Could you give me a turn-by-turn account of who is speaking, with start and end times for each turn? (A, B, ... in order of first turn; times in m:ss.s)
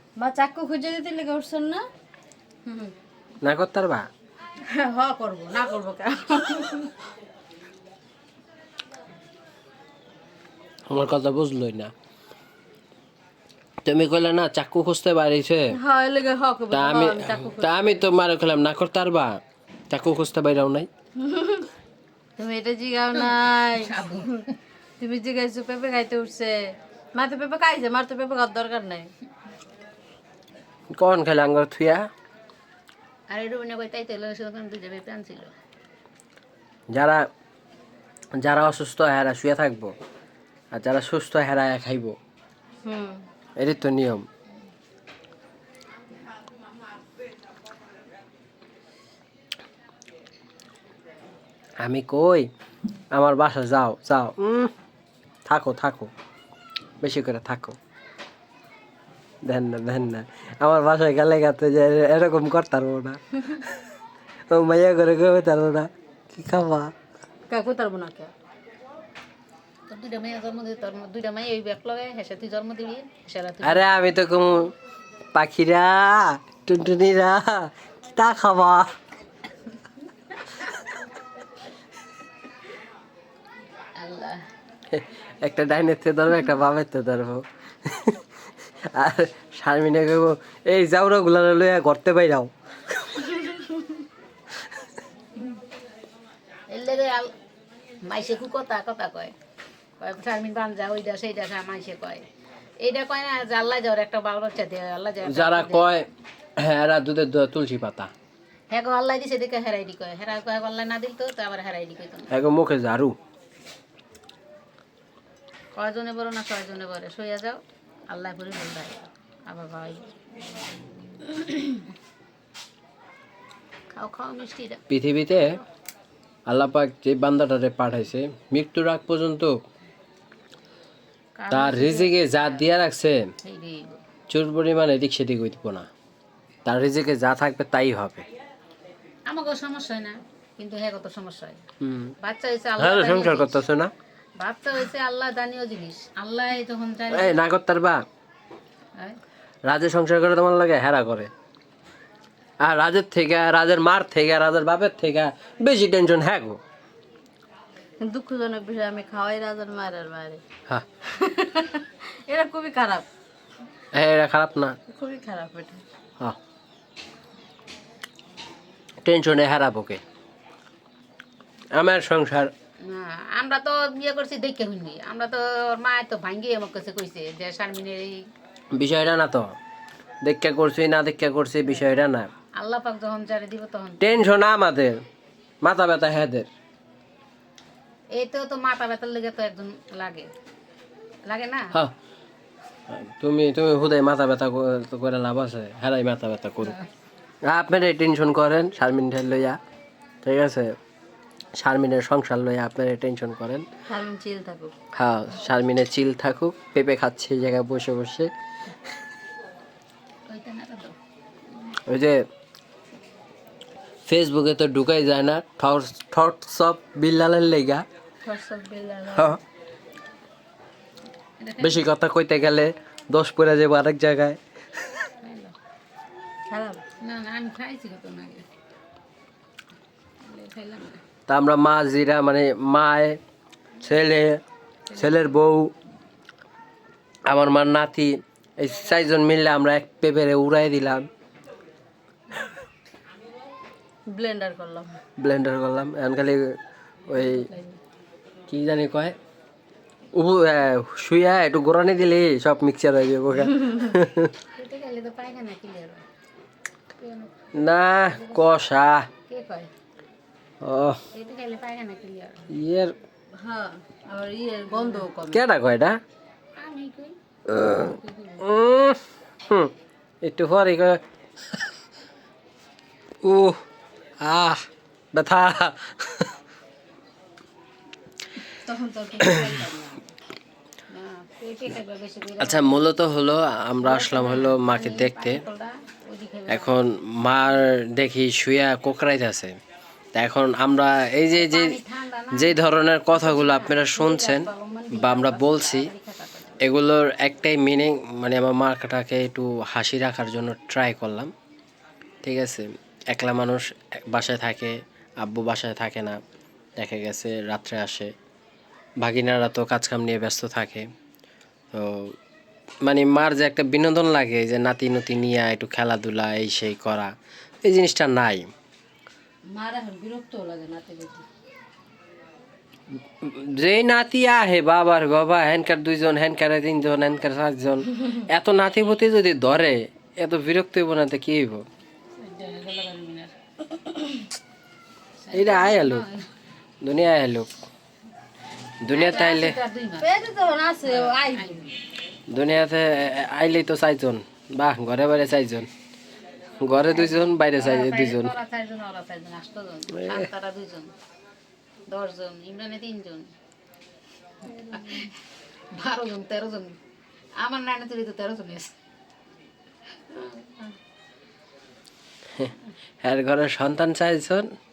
0:00.2-0:01.8 A
0:03.4-0:04.1 B
0:04.6-0:06.9 A
0:10.9-0:11.9 B
0:13.8-0:15.8 B
0:15.7-0:18.0 A
0:16.7-0:20.9 B
0:21.2-0:21.7 A
0:22.4-0:24.2 A
0:23.1-0:24.5 C
0:25.0-0:29.1 A
0:30.9-0:32.0 B
0:33.3-0:35.5 C
0:36.9-0:37.2 B
0:38.4-0:39.9 B
0:40.7-0:42.2 B
0:42.8-0:43.2 A
0:43.6-0:44.3 B
0:51.8-0:52.5 B
0:53.1-0:54.7 B
0:55.5-0:56.1 B
0:57.0-0:57.8 B
0:59.4-1:03.7 B
1:04.5-1:06.9 B
1:07.5-1:08.3 A
1:09.9-1:14.0 C
1:13.6-1:14.7 B
1:15.3-1:18.9 B
1:24.0-1:24.4 C
1:24.9-1:28.2 B
1:28.9-1:32.5 B
1:36.7-1:37.3 C
1:38.0-1:39.3 C
1:40.0-1:42.2 C
1:42.8-1:45.9 C
1:45.2-1:48.1 B
1:48.7-1:52.3 C
1:52.3-1:53.2 B
1:55.7-2:00.1 C
2:01.2-2:01.8 C
2:03.9-2:04.8 C
2:04.9-2:05.6 B
2:06.5-2:09.6 B
2:11.4-2:12.6 C
2:11.5-2:13.3 B
2:13.4-2:14.0 C
2:14.3-2:15.9 B
2:16.6-2:18.2 B
2:19.3-2:21.6 C
2:21.8-2:22.1 B
2:22.2-2:23.6 C
2:22.8-2:23.9 B
2:24.4-2:27.4 C
2:27.1-2:28.0 B
2:29.6-2:31.3 B
2:32.6-2:36.6 B
2:38.0-2:40.4 A
2:41.0-2:43.1 A
2:43.9-2:44.8 B
2:44.9-2:45.8 A
2:49.0-2:50.0 B
2:51.7-2:52.5 B
2:52.8-2:58.2 C
2:58.7-2:59.5 B
3:00.2-3:02.3 B
3:02.6-3:04.3 C
3:04.0-3:05.0 B
3:05.6-3:06.5 B
3:08.1-3:10.3 C
3:11.2-3:11.7 C
3:12.9-3:16.8 B
3:17.4-3:19.6 B
3:20.2-3:20.8 B
3:21.6-3:23.6 B
3:23.9-3:24.7 A
3:25.0-3:28.3 B
3:30.3-3:31.0 C
3:31.9-3:32.2 B
3:34.1-3:37.8 B
3:38.2-3:39.4 A
3:39.1-3:39.4 B
3:41.4-3:41.9 C
3:41.6-3:44.4 B
3:45.2-3:45.5 C
3:46.5-3:46.8 A
3:47.0-3:48.4 C
3:50.2-3:51.0 C
3:51.3-3:53.2 B
3:53.8-3:54.4 B
3:54.9-3:55.4 C
3:54.9-3:55.7 B
3:57.3-4:01.1 B
4:04.1-4:04.9 A
4:05.2-4:07.5 B
4:07.1-4:07.8 A
4:08.5-4:09.2 B
4:10.1-4:14.3 B
4:13.5-4:13.9 A
4:14.5-4:16.0 C
4:17.0-4:18.6 C
4:17.5-4:19.1 B
4:19.3-4:19.7 C
4:20.6-4:21.0 B
4:21.1-4:22.5 C
4:22.5-4:22.9 B
4:23.4-4:25.4 A
4:24.7-4:25.2 C
4:25.3-4:26.0 B
4:26.6-4:28.4 C
4:27.5-4:29.7 B
4:30.2-4:31.0 B
4:33.2-4:33.6 B
4:34.2-4:36.3 B
4:38.6-4:40.1 A
4:40.9-4:42.8 C
4:42.4-4:45.4 B
4:43.8-4:46.8 C
4:46.5-4:49.6 B
4:50.1-4:51.8 B
4:51.3-4:56.6 C
4:52.3-4:55.9 B
4:56.6-5:01.3 B
5:02.2-5:06.2 B
5:06.8-5:08.1 B
5:09.0-5:10.9 B
5:11.7-5:12.1 B
5:12.8-5:18.5 B
5:19.5-5:21.2 A
5:23.2-5:31.6 B
5:32.2-5:33.4 C
5:35.2-5:36.3 C
5:35.3-5:36.0 B
5:36.8-5:37.5 B
5:38.8-5:39.6 B
5:38.9-5:40.1 C
5:39.1-5:39.4 A
5:40.0-5:41.7 A
5:40.8-5:41.7 C
5:42.3-5:45.7 B
5:46.6-5:48.3 B
5:47.0-5:50.9 C
5:51.9-5:53.3 C
5:54.4-5:55.1 C
5:55.7-5:56.8 C
5:57.4-5:58.7 C
6:00.1-6:00.8 C
6:02.4-6:04.5 B